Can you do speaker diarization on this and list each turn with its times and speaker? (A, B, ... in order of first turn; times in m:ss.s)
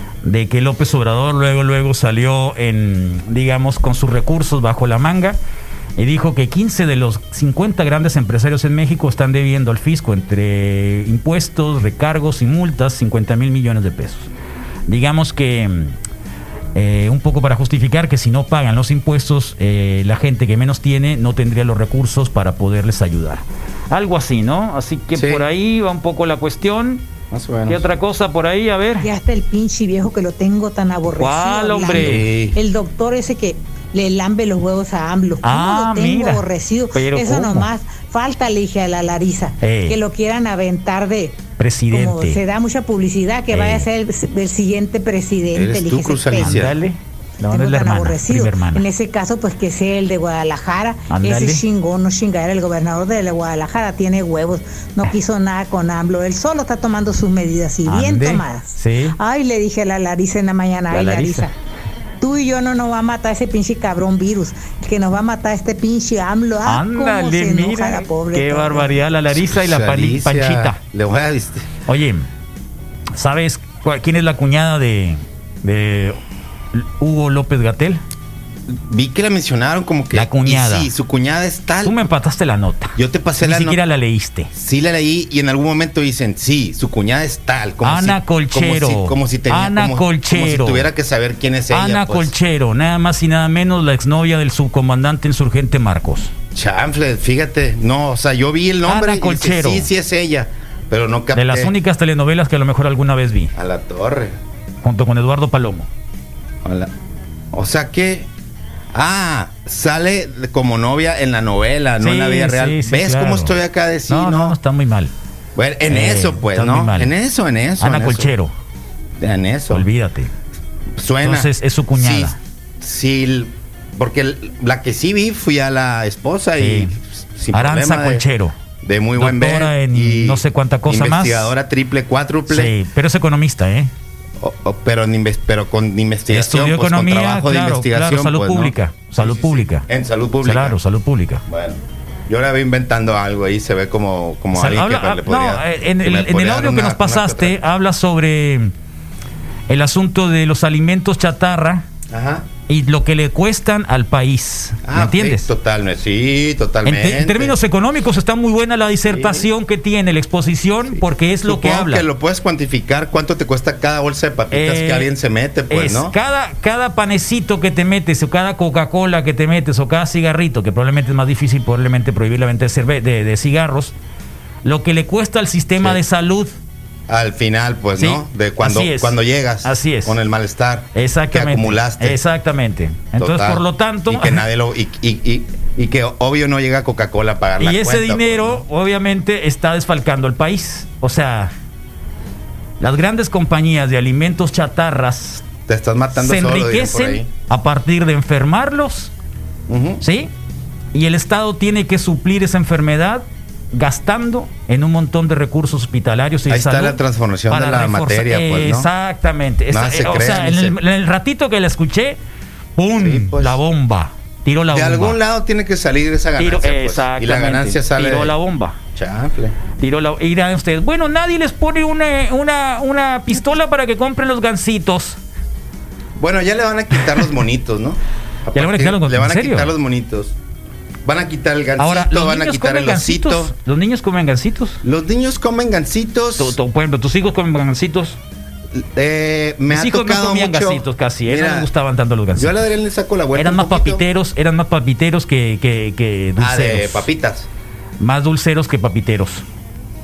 0:00.2-0:05.4 A
0:06.0-0:14.3 A
0:14.9-0:16.0 A
0:16.7-0:27.0 A
0:25.1-0:25.4 B
0:27.3-0:27.8 B
0:27.7-0:29.1 A
0:29.0-0:46.6 C
0:31.1-0:32.2 A
0:31.9-0:32.6 B
0:35.4-0:37.7 A
0:39.6-0:40.0 A
0:41.6-0:42.4 A
0:43.5-0:43.9 A
0:45.5-0:46.8 B
0:46.3-0:48.8 A
0:47.5-1:01.5 C
0:51.1-0:51.6 A
0:57.8-0:59.2 A
1:00.9-1:01.5 A
1:02.2-1:09.0 C
1:06.6-1:10.8 A
1:09.3-1:11.7 B
1:11.9-1:12.3 A
1:13.1-1:16.2 A
1:16.7-1:18.0 A
1:18.7-1:22.0 B
1:20.1-1:20.9 A
1:21.8-1:24.5 A
1:23.0-1:23.8 B
1:24.5-1:32.3 B
1:27.8-1:30.9 A
1:31.7-1:36.3 A
1:36.5-1:41.7 B
1:38.8-1:39.9 A
1:41.3-1:43.5 A
1:43.5-1:44.3 B
1:44.8-1:45.9 A
1:46.6-1:46.9 B
1:47.5-1:48.3 B
1:48.9-1:54.6 B
1:52.0-1:53.6 A
1:54.1-1:55.1 A
1:55.6-1:58.3 B
1:55.9-1:57.1 A
1:57.8-1:58.5 A
1:59.2-1:59.9 B
1:59.7-2:00.3 A
2:00.9-2:08.2 B
2:01.2-2:02.4 A
2:06.6-2:06.9 A
2:07.5-2:08.5 A
2:08.8-2:12.7 B
2:09.2-2:11.5 A
2:12.5-2:13.9 A
2:14.4-2:20.8 B
2:16.3-2:19.8 A
2:20.4-2:21.4 A
2:21.5-2:27.6 B
2:24.5-2:28.7 A
2:29.7-2:31.8 A
2:32.1-2:32.5 B
2:32.7-2:35.5 A
2:34.8-2:37.6 B
2:36.8-2:42.0 A
2:39.0-2:39.5 B
2:40.9-2:46.1 B
2:44.5-2:45.1 A
2:45.7-2:53.9 A
2:54.6-2:56.5 A
2:57.1-3:02.2 B
2:58.0-3:00.2 A
3:00.9-3:04.4 A
3:03.2-3:08.6 B
3:07.6-3:11.5 A
3:12.8-3:15.4 A
3:15.7-3:17.3 B
3:16.1-3:19.1 A
3:19.7-3:20.0 B
3:20.0-3:20.3 A
3:20.9-3:32.2 A
3:26.5-3:28.9 B
3:29.7-3:30.8 B
3:32.8-3:35.2 A
3:33.0-3:33.6 B
3:34.7-3:38.3 B
3:36.4-3:38.8 A
3:38.9-3:39.6 B
3:39.8-3:45.2 A
3:46.2-3:50.3 B
3:48.5-3:49.7 A
3:51.0-3:53.5 B
3:51.8-3:54.8 A
3:54.8-3:56.6 B
3:56.4-3:58.2 A
3:58.7-4:01.7 B
3:59.7-4:02.7 A
4:02.4-4:04.0 B
4:03.3-4:07.1 A
4:06.4-4:07.5 B
4:08.0-4:09.4 A